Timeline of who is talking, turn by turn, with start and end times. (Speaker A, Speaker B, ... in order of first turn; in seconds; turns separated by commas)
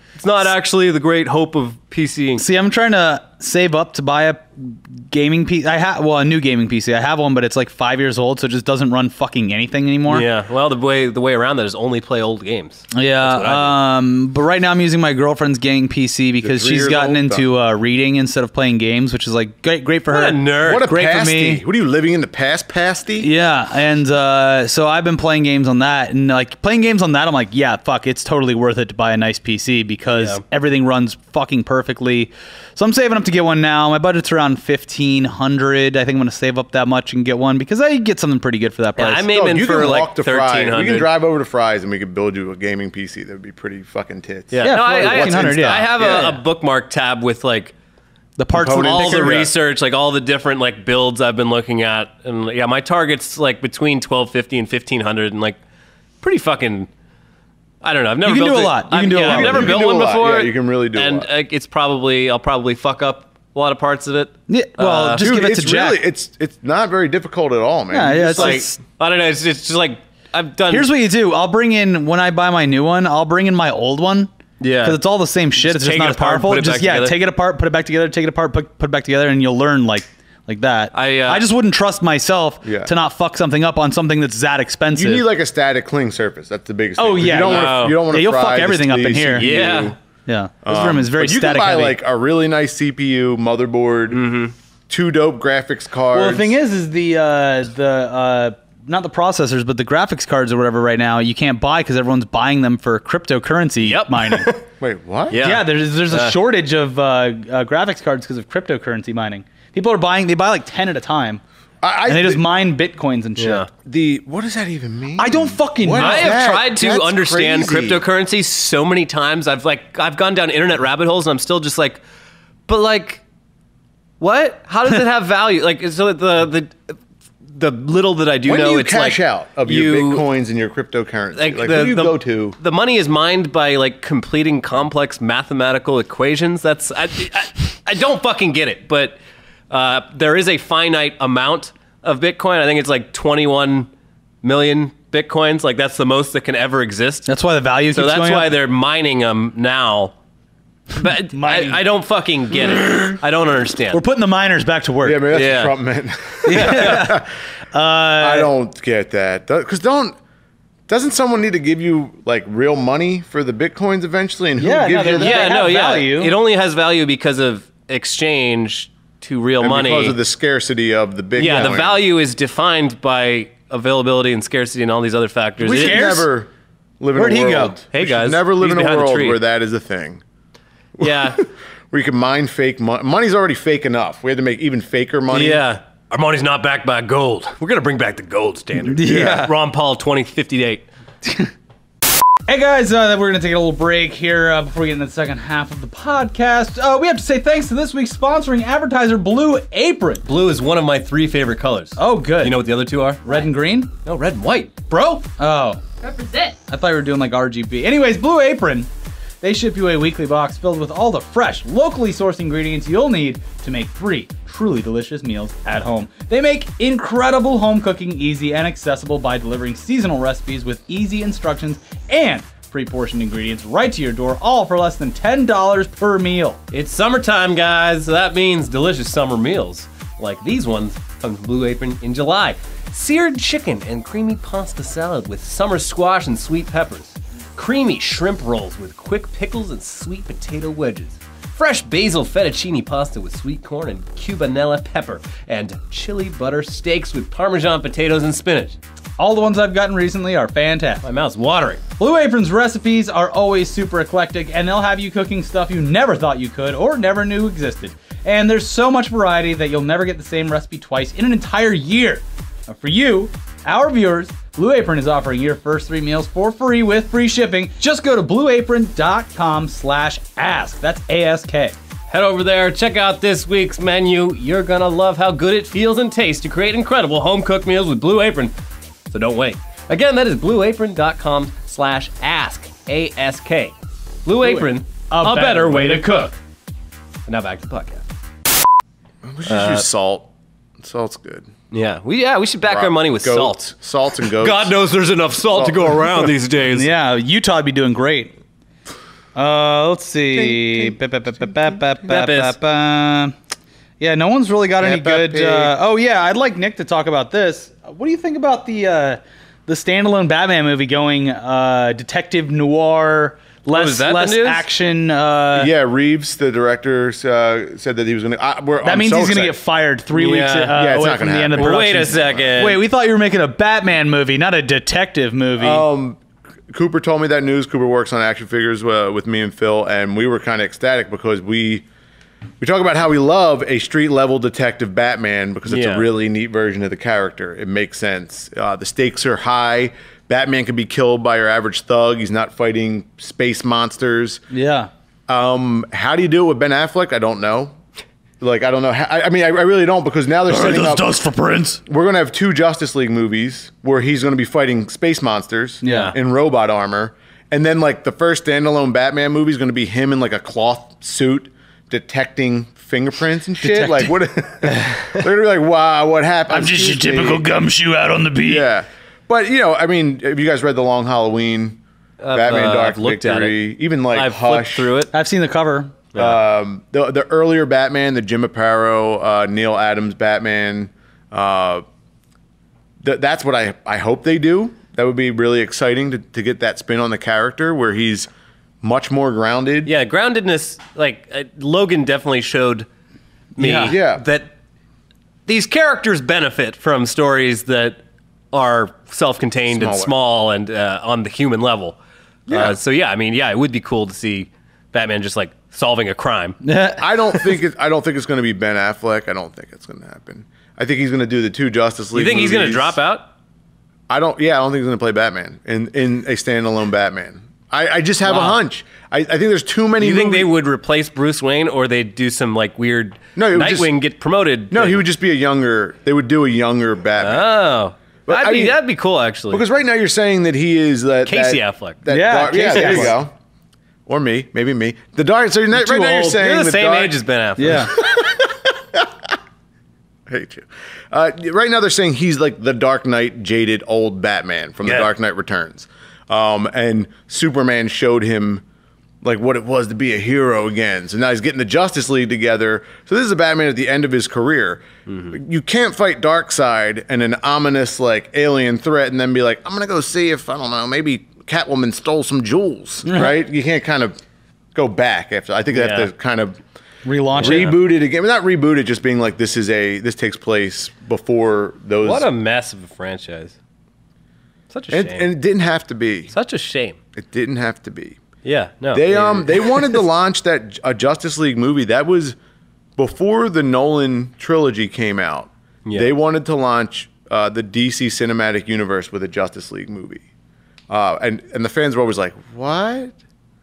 Speaker A: 0.2-2.5, Speaker B: 2.4-10.3, Speaker A: 10.1-13.8, Speaker B: 12.9-21.6, Speaker C: 16.4-17.5, Speaker A: 20.1-20.9, Speaker C: 20.7-23.3, Speaker B: 23.2-39.3, Speaker A: 39.0-41.1, Speaker C: 39.3-46.2, Speaker A: 44.5-47.7, Speaker B: 44.6-46.4, Speaker B: 48.4-49.5, Speaker C: 48.5-49.5, Speaker A: 48.7-55.6, Speaker A: 56.2-56.9, Speaker A: 57.8-65.2, Speaker B: 58.2-59.8, Speaker C: 59.2-61.3, Speaker B: 64.5-66.0, Speaker C: 65.2-68.7, Speaker B: 67.9-68.7, Speaker A: 68.3-70.9, Speaker B: 70.7-74.3, Speaker A: 74.6-75.0, Speaker B: 74.8-85.2, Speaker A: 75.6-77.2, Speaker A: 80.9-81.5, Speaker C: 82.6-82.9, Speaker C: 84.9-90.0, Speaker B: 87.0-89.5, Speaker A: 87.4-88.0, Speaker A: 89.4-90.0, Speaker B: 90.3-92.0, Speaker C: 90.6-94.2, Speaker A: 94.1-94.5, Speaker C: 94.9-96.6, Speaker B: 96.1-104.5, Speaker A: 103.8-104.6, Speaker C: 104.8-105.4, Speaker A: 105.3-106.4, Speaker B: 105.4-111.4, Speaker C: 111.8-112.4, Speaker B: 112.1-113.7, Speaker A: 113.4-113.7, Speaker C: 113.8-118.0, Speaker B: 115.2-116.5, Speaker A: 116.0-122.0, Speaker A: 122.7-123.2, Speaker A: 124.2-126.9, Speaker A: 127.5-130.2, Speaker C: 128.5-132.6, Speaker A: 131.3-139.2, Speaker A: 139.7-143.9, Speaker A: 144.4-147.3, Speaker B: 147.3-148.5, Speaker A: 147.9-150.1, Speaker A: 150.9-154.0, Speaker B: 151.3-151.8, Speaker B: 153.9-155.3, Speaker C: 155.0-157.3, Speaker A: 155.3-155.8, Speaker A: 156.5-157.1, Speaker B: 156.5-158.5, Speaker C: 158.2-160.2, Speaker C: 160.9-165.6, Speaker B: 164.6-166.4, Speaker A: 165.2-170.2, Speaker C: 169.6-172.0, Speaker A: 171.4-176.2, Speaker C: 175.6-180.2, Speaker B: 175.7-176.3, Speaker B: 177.2-177.8, Speaker A: 177.9-179.4, Speaker A: 181.0-181.4, Speaker C: 181.0-185.6, Speaker A: 185.3-190.9, Speaker B: 188.8-189.5, Speaker C: 189.1-189.5, Speaker B: 191.2-191.5, Speaker B: 192.5-200.2, Speaker A: 200.2-203.4, Speaker B: 202.0-202.6, Speaker B: 203.2-203.9, Speaker A: 204.1-204.9, Speaker B: 204.9-205.8, Speaker A: 206.0-206.6, Speaker B: 206.6-208.9, Speaker B: 209.4-226.6, Speaker A: 226.7-248.8, Speaker B: 249.2-251.0, Speaker A: 251.0-251.8, Speaker B: 252.0-271.8, Speaker A: 272.1-278.6, Speaker A: 279.1-286.3, Speaker B: 284.4-286.3, Speaker A: 287.3-288.0, Speaker C: 289.2-290.3, Speaker A: 289.5-289.9, Speaker C: 290.8-291.5, Speaker A: 291.7-293.7, Speaker C: 292.6-294.8, Speaker A: 294.4-296.9, Speaker C: 295.5-296.3, Speaker B: 296.7-298.3, Speaker B: 299.4-303.4, Speaker C: 300.3-301.8, Speaker A: 302.1-302.6, Speaker B: 304.0-315.7, Speaker C: 304.8-305.8, Speaker A: 313.7-314.7, Speaker C: 315.5-319.6, Speaker B: 318.8-325.9, Speaker A: 320.1-320.8, Speaker C: 320.7-322.5, Speaker A: 321.6-322.8, Speaker C: 325.6-331.9, Speaker C: 332.6-344.4, Speaker A: 335.7-336.1, Speaker B: 344.5-344.9, Speaker C: 345.3-347.7, Speaker C: 348.4-351.2, Speaker B: 350.5-351.8, Speaker C: 351.9-367.4, Speaker B: 355.8-356.1, Speaker A: 355.8-356.1, Speaker B: 363.6-364.1, Speaker B: 366.5-368.7, Speaker C: 368.4-371.8, Speaker A: 372.2-373.6, Speaker C: 372.3-374.9, Speaker A: 374.1-375.1, Speaker B: 375.1-376.0, Speaker A: 376.1-376.4, Speaker C: 376.2-381.8, Speaker C: 383.0-388.3, Speaker C: 388.8-389.9, Speaker A: 389.9-392.9, Speaker A: 393.6-394.5, Speaker B: 393.6-394.0, Speaker C: 393.9-394.2, Speaker A: 395.5-398.0, Speaker A: 398.5-402.0, Speaker C: 399.7-400.1, Speaker C: 402.5-402.8, Speaker A: 402.5-406.6, Speaker B: 406.6-407.6, Speaker C: 407.0-413.0, Speaker A: 412.1-413.3, Speaker C: 414.1-420.5, Speaker A: 418.2-418.6, Speaker A: 420.0-425.1, Speaker C: 423.4-423.9, Speaker C: 424.7-427.5, Speaker A: 427.2-429.6, Speaker C: 428.3-428.8, Speaker C: 429.5-433.3, Speaker A: 431.2-432.0, Speaker B: 432.1-433.2, Speaker A: 432.7-433.2, Speaker C: 434.1-439.1, Speaker A: 435.8-438.0, Speaker B: 437.6-437.9, Speaker C: 440.3-448.6, Speaker A: 444.8-445.1, Speaker C: 449.2-464.2, Speaker A: 455.1-455.4, Speaker B: 463.1-463.3, Speaker C: 464.8-466.6, Speaker A: 465.7-466.1, Speaker B: 467.1-467.8, Speaker C: 467.4-472.3, Speaker A: 467.4-467.8, Speaker A: 472.0-473.6, Speaker A: 474.7-475.3, Speaker C: 474.9-476.3, Speaker A: 476.3-477.0, Speaker C: 477.2-478.2, Speaker A: 478.4-480.0, Speaker C: 478.9-482.4, Speaker C: 483.0-490.2, Speaker A: 485.9-486.1, Speaker C: 490.9-493.1